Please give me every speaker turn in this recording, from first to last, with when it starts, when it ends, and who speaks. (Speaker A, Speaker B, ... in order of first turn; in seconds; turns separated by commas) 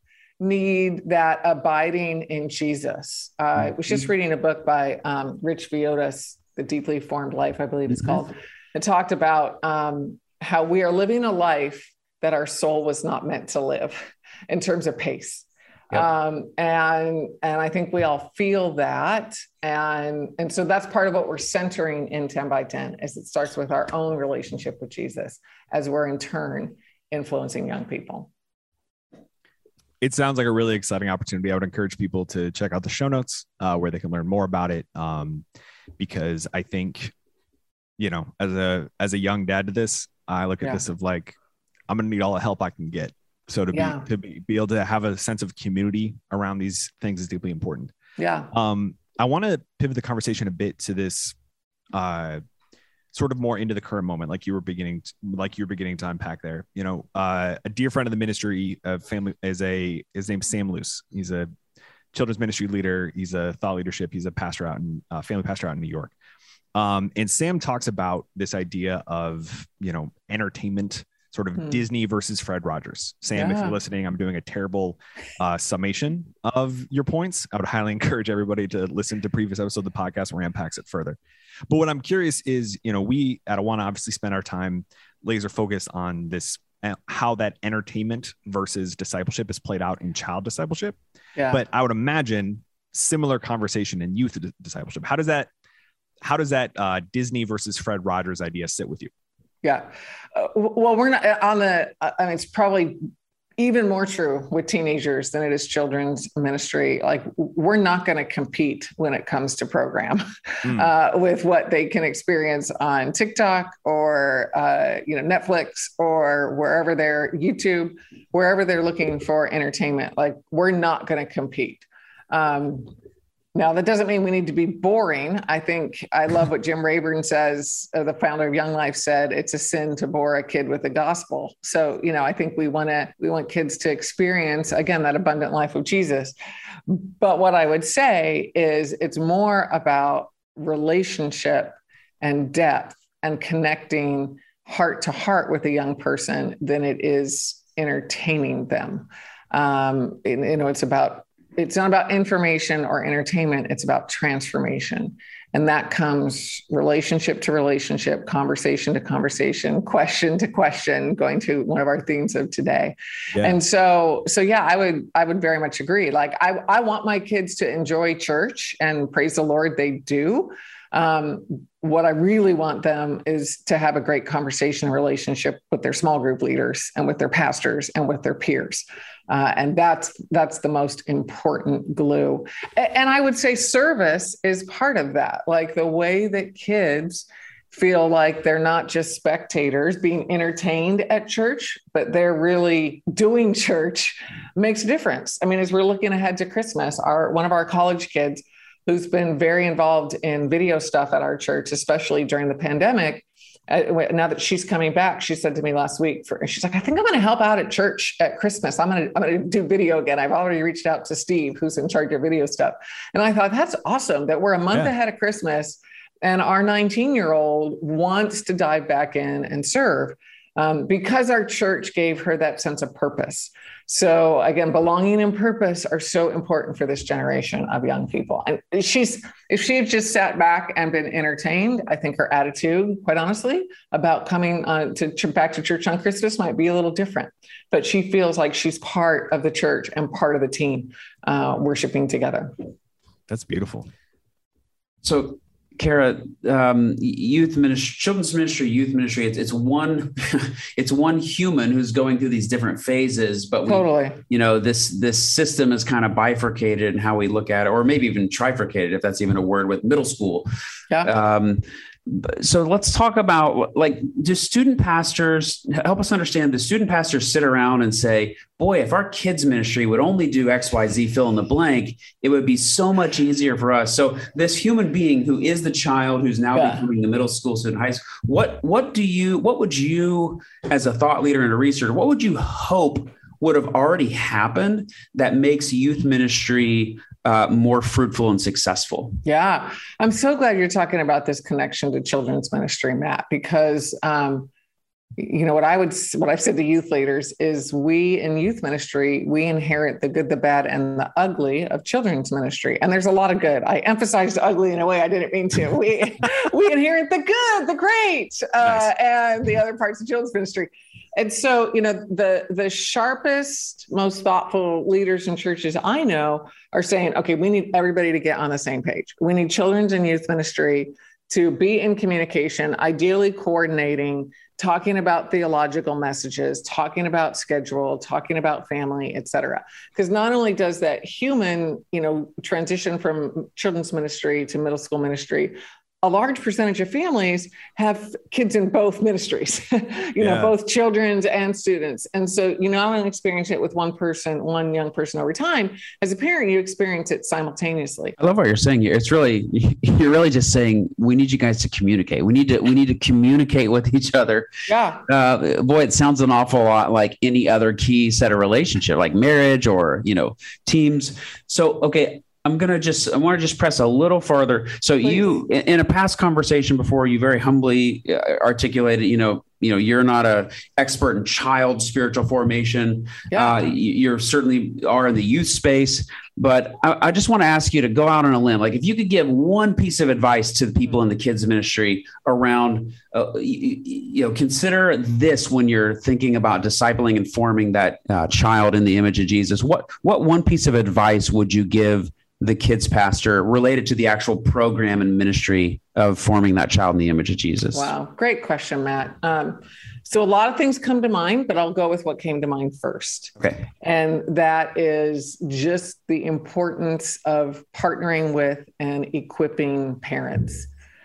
Speaker A: 0.4-28.3, Speaker B: 30.0-35.4, Speaker B: 36.0-37.1, Speaker B: 38.0-41.3, Speaker B: 41.9-47.9, Speaker A: 43.7-44.1, Speaker A: 48.2-48.5, Speaker B: 48.5-51.3, Speaker B: 51.9-52.4, Speaker B: 53.1-61.5, Speaker B: 62.1-66.1, Speaker B: 66.7-91.0, Speaker A: 71.6-71.8, Speaker A: 73.3-73.8, Speaker A: 91.3-91.6, Speaker B: 91.5-95.5, Speaker B: 96.2-99.1, Speaker A: 99.6-103.0, Speaker A: 103.6-122.9, Speaker A: 123.5-136.3, Speaker A: 136.9-242.5, Speaker B: 243.3-243.9, Speaker C: 245.0-260.5, Speaker A: 253.7-254.2, Speaker C: 261.0-289.2, Speaker A: 276.5-276.8, Speaker A: 289.2-294.5, Speaker A: 295.2-348.1, Speaker B: 340.2-340.5, Speaker C: 348.2-354.5, Speaker A: 354.7-355.0, Speaker C: 355.1-397.9, Speaker A: 365.0-365.4, Speaker A: 373.3-373.6, Speaker A: 397.7-410.7, Speaker C: 403.4-403.6